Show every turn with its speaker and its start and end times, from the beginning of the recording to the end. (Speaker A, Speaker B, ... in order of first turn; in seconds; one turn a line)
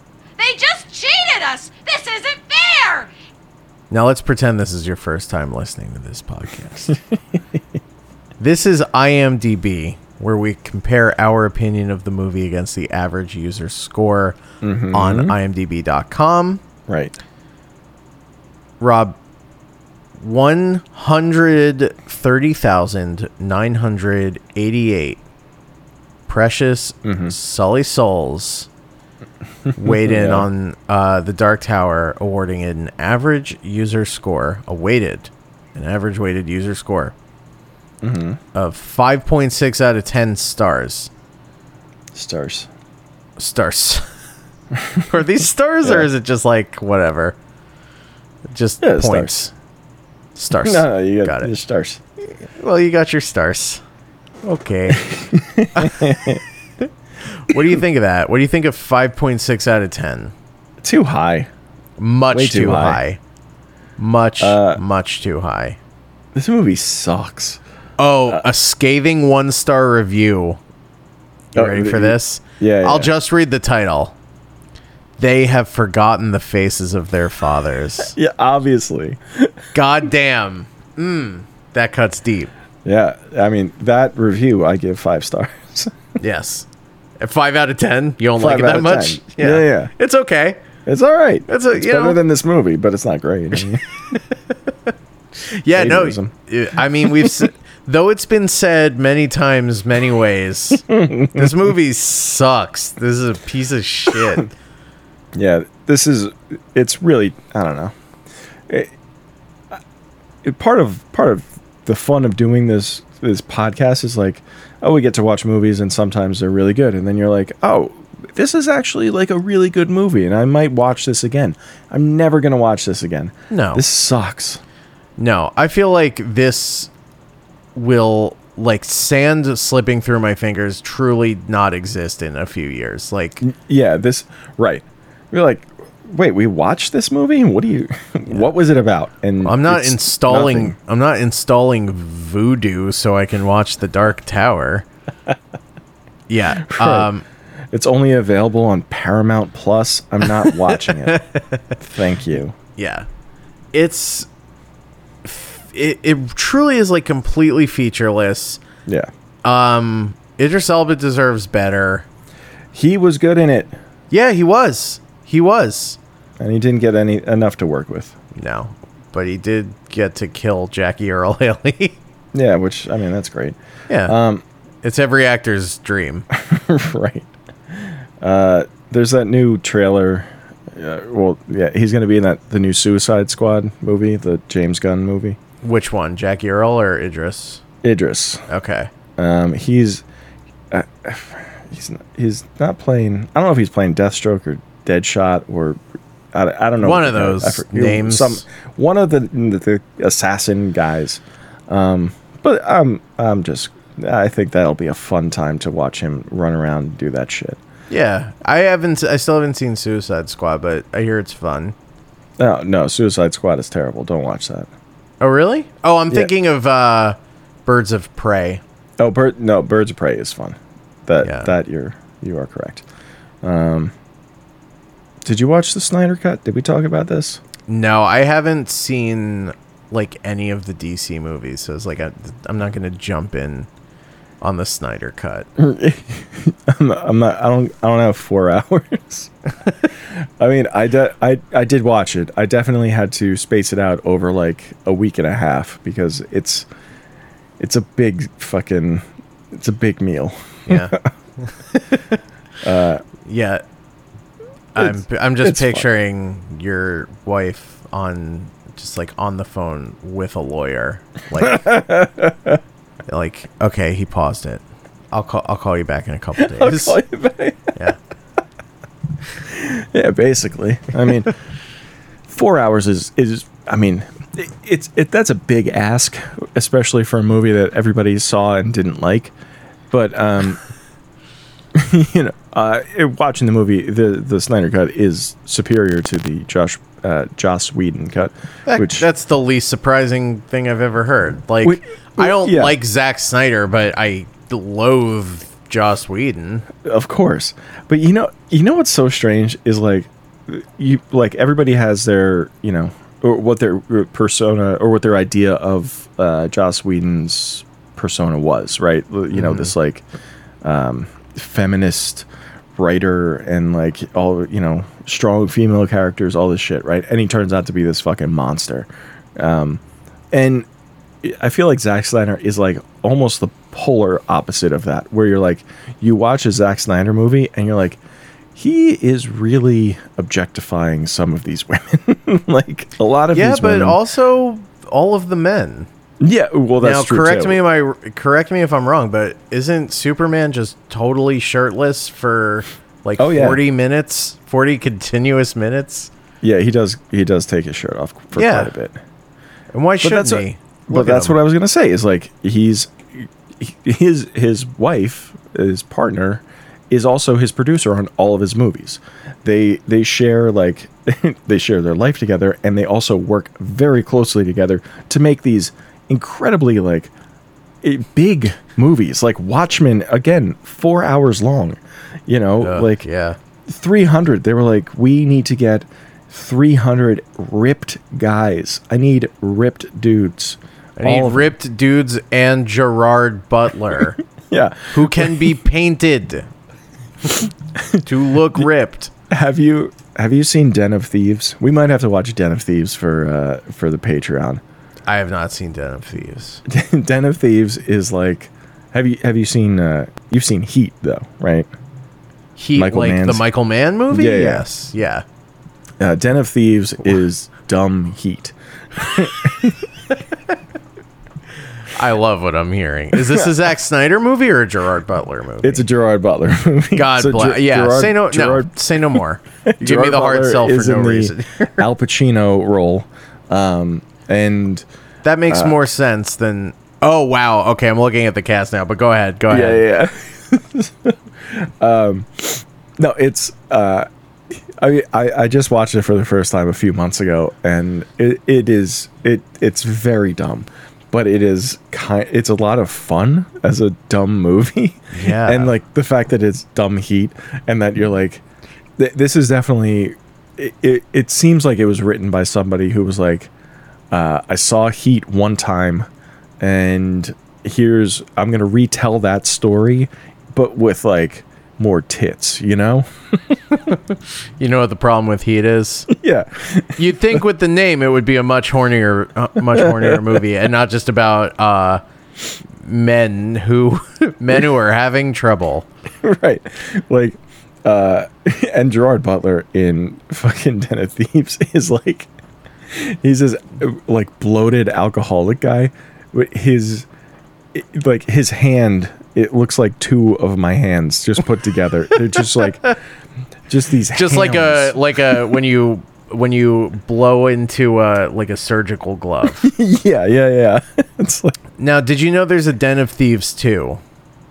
Speaker A: 0.4-3.1
Speaker B: 3.9-7.0
Speaker B: 8.4-16.6
Speaker C: 14.6-15.3
Speaker C: 16.9-17.1
Speaker B: 18.8-19.2
Speaker B: 20.2-25.2
Speaker B: 26.3-28.7
Speaker C: 27.0-27.3
Speaker C: 29.7-30.5
Speaker B: 29.8-37.1
Speaker C: 38.0-38.4
Speaker B: 38.5-41.1
Speaker C: 42.1-42.7
Speaker B: 43.4-44.0
Speaker B: 45.0-47.4
Speaker B: 48.5-49.5
Speaker C: 48.8-49.4
Speaker B: 50.3-51.5
Speaker C: 50.6-52.0
Speaker B: 52.3-53.8
Speaker B: 54.4-55.0
Speaker C: 55.0-56.4
Speaker B: 55.7-56.1
Speaker B: 57.3-60.3
Speaker C: 60.8-61.5
Speaker B: 62.0-63.2
Speaker C: 62.3-63.0
Speaker B: 64.0-65.8
Speaker C: 64.4-64.8
Speaker C: 66.3-67.6
Speaker B: 68.0-70.6
Speaker B: 71.5-74.1
Speaker C: 71.5-73.1
Speaker B: 75.2-78.2
Speaker C: 78.1-79.5
Speaker B: 79.7-82.5
Speaker C: 82.8-85.9
Speaker B: 86.2-86.7
Speaker B: 87.2-90.6
Speaker C: 88.4-89.9
Speaker C: 90.8-93.8
Speaker B: 91.5-92.2
Speaker B: 94.1-104.5
Speaker C: 95.7-96.3
Speaker C: 97.0-97.5
Speaker C: 100.9-101.5
Speaker C: 105.3-107.9
Speaker C: 110.4-124.6
Speaker B: 123.5-123.8
Speaker B: 125.2-126.9
Speaker B: 127.7-133.4
Speaker C: 133.4-140.7
Speaker B: 139.4-144.8
Speaker B: 146.3-147.2
Speaker C: 146.6-147.1
Speaker C: 147.7-151.2
Speaker B: 150.7-151.7
Speaker C: 151.8-152.6
Speaker B: 152.8-153.1
Speaker B: 153.7-154.3
Speaker B: 155.2-158.6
Speaker B: 159.4-162.1
Speaker C: 162.7-163.7
Speaker B: 164.1-166.0
Speaker C: 166.4-168.1
Speaker B: 168.3-172.0
Speaker C: 172.3-174.4
Speaker B: 173.9-174.2
Speaker B: 174.8-176.3
Speaker C: 176.3-185.4
Speaker B: 185.6-187.6
Speaker C: 187.8-188.4
Speaker B: 188.5-188.9
Speaker C: 189.2-190.0
Speaker C: 190.7-195.8
Speaker C: 196.3-207.6
Speaker B: 196.8-198.4
Speaker B: 207.9-211.7
Speaker C: 212.4-214.7
Speaker B: 215.2-218.6
Speaker C: 219.0-222.8
Speaker B: 221.2-221.5
Speaker C: 223.4-223.9
Speaker C: 225.2-227.4
Speaker B: 227.7-233.7
Speaker B: 234.4-235.5
Speaker C: 235.6-239.3
Speaker C: 240.4-246.7
Speaker C: 247.6-251.0
Speaker B: 250.7-252.2
Speaker C: 252.6-253.0
Speaker B: 253.2-253.6
Speaker B: 254.7-261.7
Speaker C: 254.8-255.9
Speaker C: 261.4-262.6
Speaker B: 263.1-267.0
Speaker C: 266.4-267.8
Speaker C: 269.4-271.3
Speaker C: 272.3-279.3
Speaker C: 279.9-280.6
Speaker C: 281.7-289.1
Speaker B: 288.7-296.6
Speaker C: 291.6-292.8
Speaker C: 296.8-310.0
Speaker B: 309.3-309.7
Speaker C: 310.6-319.8
Speaker C: 320.3-320.7
Speaker C: 321.2-328.0
Speaker C: 328.5-334.0
Speaker B: 333.3-335.9
Speaker C: 336.2-337.6
Speaker B: 336.8-346.1
Speaker C: 343.2-343.6
Speaker C: 346.4-349.0
Speaker B: 348.3-348.7
Speaker B: 349.7-351.4
Speaker C: 350.0-367.1
Speaker C: 367.8-373.0
Speaker B: 372.6-373.4
Speaker C: 373.7-381.5
Speaker B: 381.0-384.2
Speaker C: 384.5-385.6
Speaker B: 384.9-386.5
Speaker C: 387.7-388.7
Speaker B: 388.0-389.1
Speaker C: 389.3-394.6
Speaker B: 395.1-396.6
Speaker C: 396.6-401.7
Speaker B: 402.6-405.2
Speaker C: 402.7-403.4
Speaker C: 404.1-404.7
Speaker C: 406.0-409.9
Speaker B: 411.9-415.9
Speaker C: 413.1-413.5
Speaker C: 415.6-424.8
Speaker B: 416.9-421.8
Speaker B: 425.2-429.8
Speaker C: 425.5-425.8
Speaker C: 429.5-448.4
Speaker B: 445.1-445.7
Speaker C: 449.0-453.5
Speaker C: 454.1-456.1
Speaker C: 456.6-463.6
Speaker B: 463.7-466.1
Speaker C: 466.1-467.4
Speaker B: 466.9-472.0
Speaker C: 469.7-470.4
Speaker B: 472.8-475.9
Speaker C: 476.2-482.3
Speaker C: 482.9-487.1
Speaker C: 487.7-492.9
Speaker C: 493.7-495.3
Speaker B: 494.1-499.7
Speaker C: 499.6-501.6
Speaker B: 501.8-504.0